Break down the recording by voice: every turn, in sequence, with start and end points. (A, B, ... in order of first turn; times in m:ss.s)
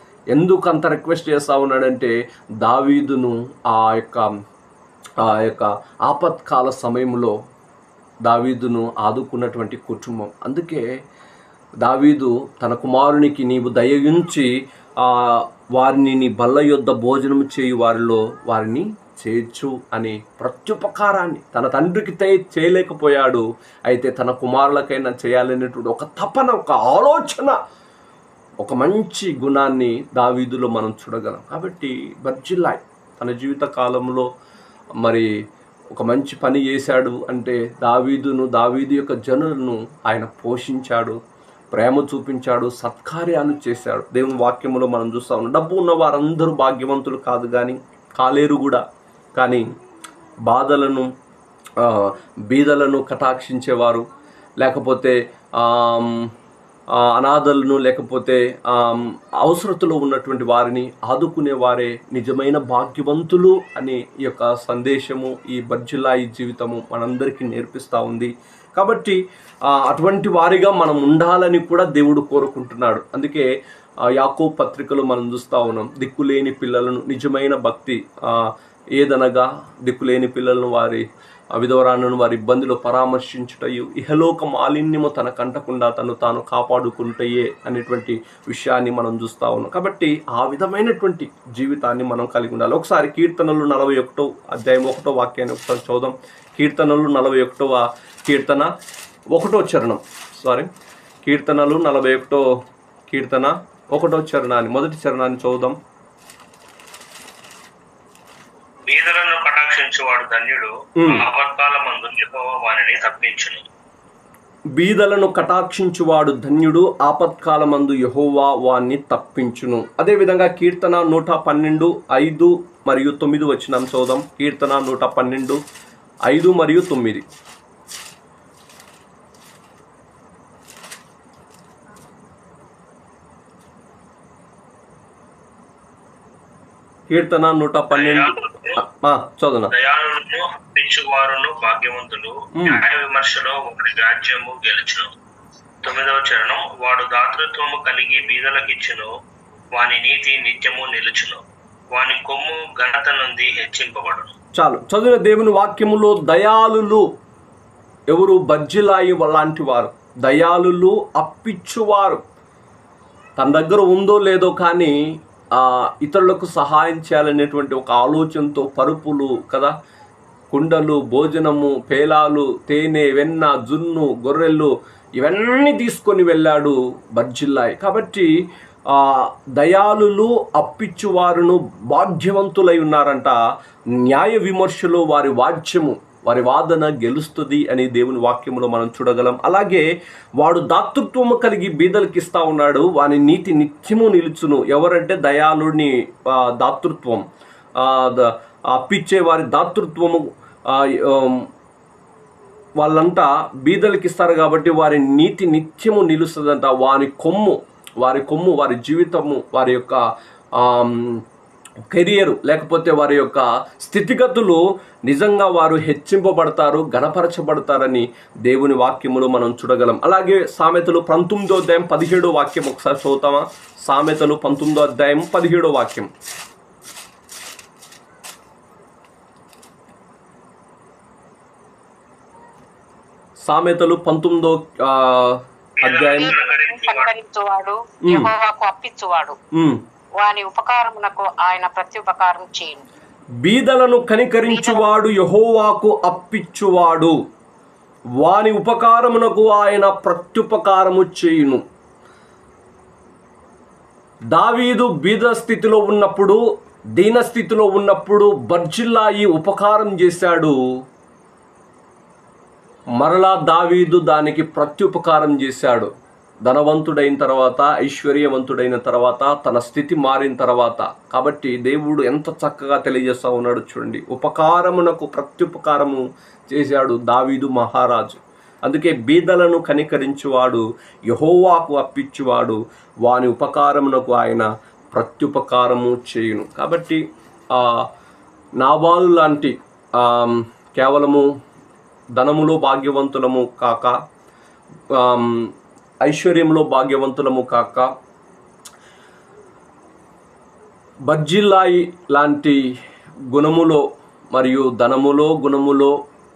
0:00.3-0:04.3 A
0:05.2-0:07.4 A
0:08.2-0:10.9 A
0:11.8-0:27.6 A
0:28.6-0:34.3 A
0:35.0-0:35.3 A
0:35.9-0:41.2 A
0:41.7-0:48.8 A
0:49.4-0:49.7 A
0:50.5-0:51.1 A
0:51.8-0:54.1 A
0:54.6-0:56.3 A
0:56.9-1:09.2 A
1:09.7-1:13.4 A
1:14.2-1:18.4 A
1:19.0-1:21.0 A
1:21.6-1:38.7 A
1:39.3-1:40.7 A
1:41.2-1:42.4 A
1:43.1-1:45.8 A
1:48.9-1:53.6 B
1:51.0-1:51.2 A
1:54.8-2:05.6 A
2:06.3-2:07.2 A
2:17.1-2:19.7 A
2:17.9-2:18.8 B
2:19.7-2:25.1 B
2:22.6-2:22.8 A
2:25.8-2:29.1 B
2:29.7-2:31.4 B
2:31.9-2:34.3 B
2:34.6-2:37.1 A
2:38.1-2:42.2 A
2:43.4-2:49.7 A
2:50.5-2:58.3 A
2:58.9-3:03.4 A
3:04.0-3:09.9 A
3:10.4-3:17.2 A
3:17.8-3:21.5 A
3:22.8-3:30.0 A
3:30.6-3:31.2 A
3:31.9-3:46.1 A
3:53.4-3:56.3 A
3:55.8-3:57.1 B
3:56.2-3:59.4 C
3:58.0-3:58.3 A
3:59.5-3:59.8 A
4:00.2-4:02.8 C
4:03.4-4:07.2 A
4:04.5-4:04.8 C
4:08.2-4:11.6 A
4:14.3-4:16.4 A
4:17.0-4:20.6 A
4:23.0-4:25.9 A
4:26.4-4:47.0 A
4:47.5-4:47.9 A
4:48.6-4:51.3 A
4:52.2-4:54.0 A
4:54.9-4:55.5 A
4:56.0-4:57.9 A
5:01.1-5:02.6 A
5:03.3-5:06.0 A